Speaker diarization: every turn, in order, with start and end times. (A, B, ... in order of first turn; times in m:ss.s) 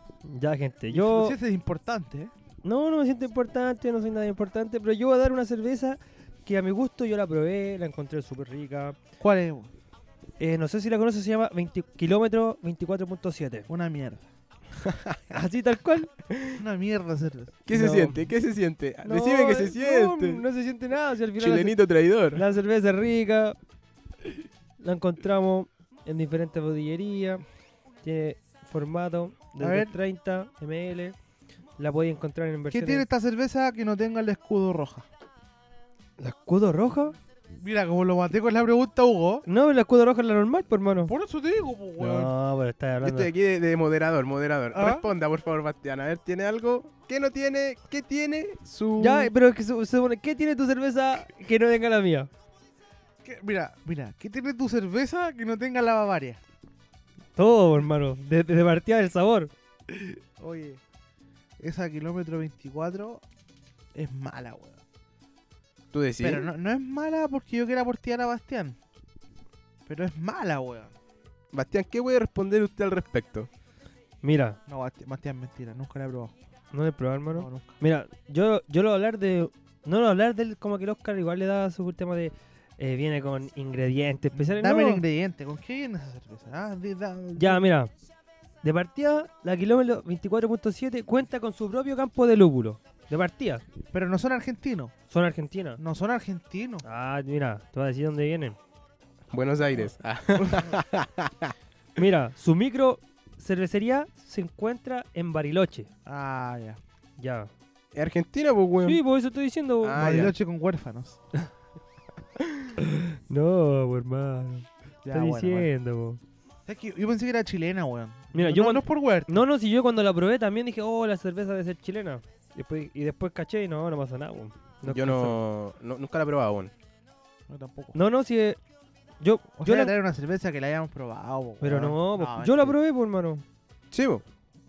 0:00.2-0:01.4 A
0:00.9-0:02.3 B
0:02.6-0:09.0 A
0:09.2-0:09.7 B
0:10.4-0:13.7 A
0:13.7-0:14.2 B
0:14.8-0:15.4 C
0:15.3-0:16.1 A
0:16.3-0:16.6 C
0:16.5-0:18.3 B
0:17.7-0:20.4 C
0:19.0-0:21.8 A
0:21.4-0:22.4 C
0:22.3-0:23.6 A
0:24.8-0:27.4 A
0:28.0-0:31.1 A
0:29.6-0:29.9 B
0:31.8-0:33.0 A
0:32.7-0:35.1 B
0:36.2-0:37.2 A
0:37.6-0:39.4 B
0:39.4-0:41.1 A
0:41.1-0:42.3 B
0:42.0-0:43.3 A
0:43.0-0:49.3 C
0:44.7-0:45.1 B
0:49.0-0:52.3 A
0:53.2-0:56.4 B
0:57.4-0:59.5 A
0:59.9-1:00.8 B
1:01.6-1:03.2 B
1:03.9-1:04.8 B
1:05.9-1:06.5 C
1:06.2-1:08.8 B
1:09.8-1:10.9 B
1:11.5-1:13.5 C
1:14.2-1:14.6 A
1:14.7-1:16.3 B
1:16.7-1:25.0 A
1:17.3-1:17.8 B
1:24.3-1:27.7 B
1:27.4-1:27.9 A
1:28.6-1:33.6 A
1:33.9-1:34.9 B
1:35.1-1:35.8 A
1:35.8-1:36.8 B
1:36.8-1:38.6 A
1:39.3-1:41.5 C
1:40.4-1:40.7 B
1:42.0-1:45.9 A
1:46.0-1:46.8 B
1:47.2-1:47.5 A
1:47.9-1:49.0 C
1:48.8-1:50.3 A
1:49.8-1:50.3 C
1:50.0-1:51.2 B
1:52.8-1:56.2 A
1:55.0-1:55.7 B
1:56.7-1:59.4 B
1:58.3-2:05.4 A
2:04.9-2:06.7 C
2:07.5-2:07.9 B
2:07.9-2:08.6 A
2:09.2-2:09.9 A
2:09.6-2:12.8 B
2:11.6-2:13.4 A
2:13.9-2:14.2 C